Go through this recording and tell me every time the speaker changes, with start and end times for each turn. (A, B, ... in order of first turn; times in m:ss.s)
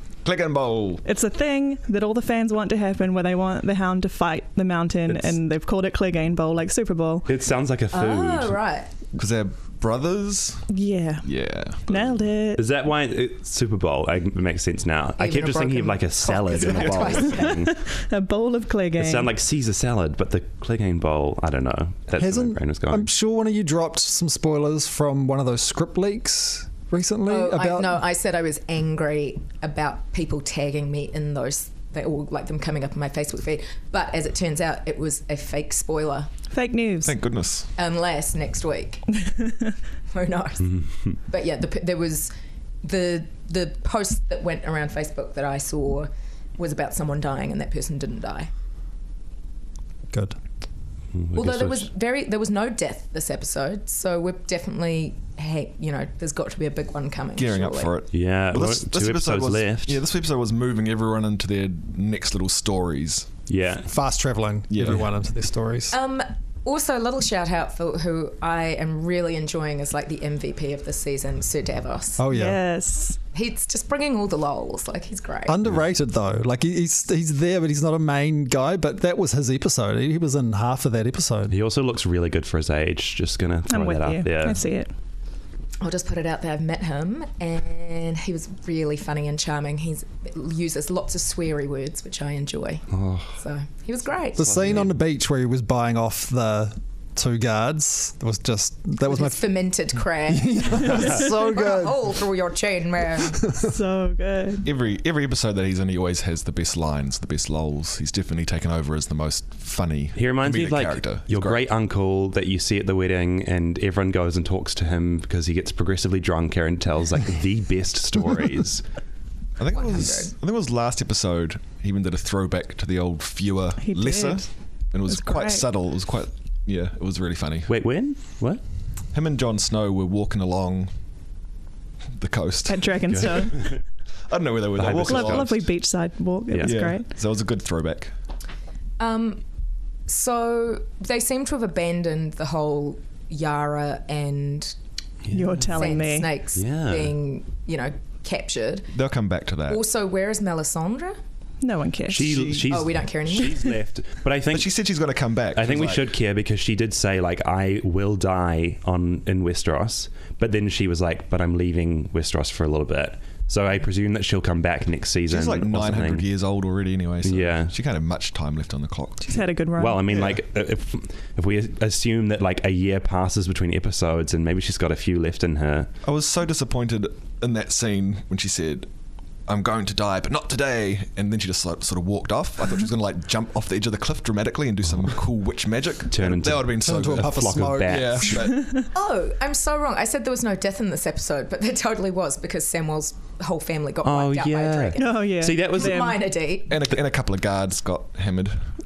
0:00.2-0:01.0 A
0:01.0-0:07.3 B
0:05.1-0:05.4 C
0:07.3-0:08.6 C
0:07.9-0:08.9 D
0:09.2-0:10.6 A
0:10.7-0:11.3 B
0:11.2-0:12.3 A
0:11.8-0:12.6 B
0:12.5-0:17.7 C
0:15.2-0:17.7 D
0:16.8-0:19.3 B
0:19.0-0:23.1 C
0:22.2-0:28.0 E
0:27.2-0:36.3 D
0:36.5-0:37.2 B
0:37.0-0:37.7 A
0:37.8-0:39.0 D
0:40.1-0:42.3 D
0:42.8-0:48.5 D
0:50.1-0:50.4 E
0:51.1-0:51.8 C
0:51.3-0:57.9 D
0:57.4-1:03.3 A
0:58.1-1:00.0 C
1:03.5-1:03.8 C
1:03.8-1:06.0 E
1:04.7-1:05.1 A
1:05.9-1:12.2 D
1:12.2-1:12.6 E
1:12.3-1:13.2 B
1:13.3-1:15.6 D
1:15.4-1:21.5 E
1:21.5-1:24.6 C
1:23.7-1:24.9 B
1:25.8-1:34.7 D
1:32.9-1:33.3 C
1:34.4-1:39.5 E
1:34.4-1:34.9 C
1:39.0-1:43.5 D
1:40.3-1:42.0 E
1:43.6-1:44.7 B
1:44.6-1:51.6 A
1:50.2-1:58.8 C
1:59.6-2:07.7 A
1:59.7-2:00.3 D
2:03.8-2:04.5 B
2:05.1-2:05.7 B
2:07.7-2:08.6 C
2:09.1-2:10.9 A
2:12.2-2:13.4 A
2:12.7-2:13.7 B
2:13.1-2:13.8 C
2:14.3-2:15.6 A
2:14.8-2:15.6 C
2:15.0-2:17.1 B
2:16.6-2:18.1 A
2:19.0-2:19.4 D
2:20.1-2:24.7 D
2:25.2-2:25.7 C
2:25.3-2:26.3 B
2:25.7-2:28.9 D
2:26.5-2:27.1 C
2:28.9-2:29.8 A
2:29.7-2:31.2 D
2:31.6-2:32.3 B
2:32.1-2:34.8 C
2:32.2-2:32.7 A
2:32.6-2:33.8 D
2:34.5-2:36.0 A
2:35.5-2:46.3 C
2:45.3-2:49.4 A
2:47.2-2:47.7 C
2:49.2-2:50.1 B
2:49.8-2:55.9 C
2:56.0-2:58.9 A
2:59.5-3:08.8 A
3:06.1-3:08.5 C
3:06.8-3:08.5 E
3:08.9-3:16.7 D
3:14.0-3:16.1 C
3:15.0-3:16.2 B
3:16.7-3:18.6 A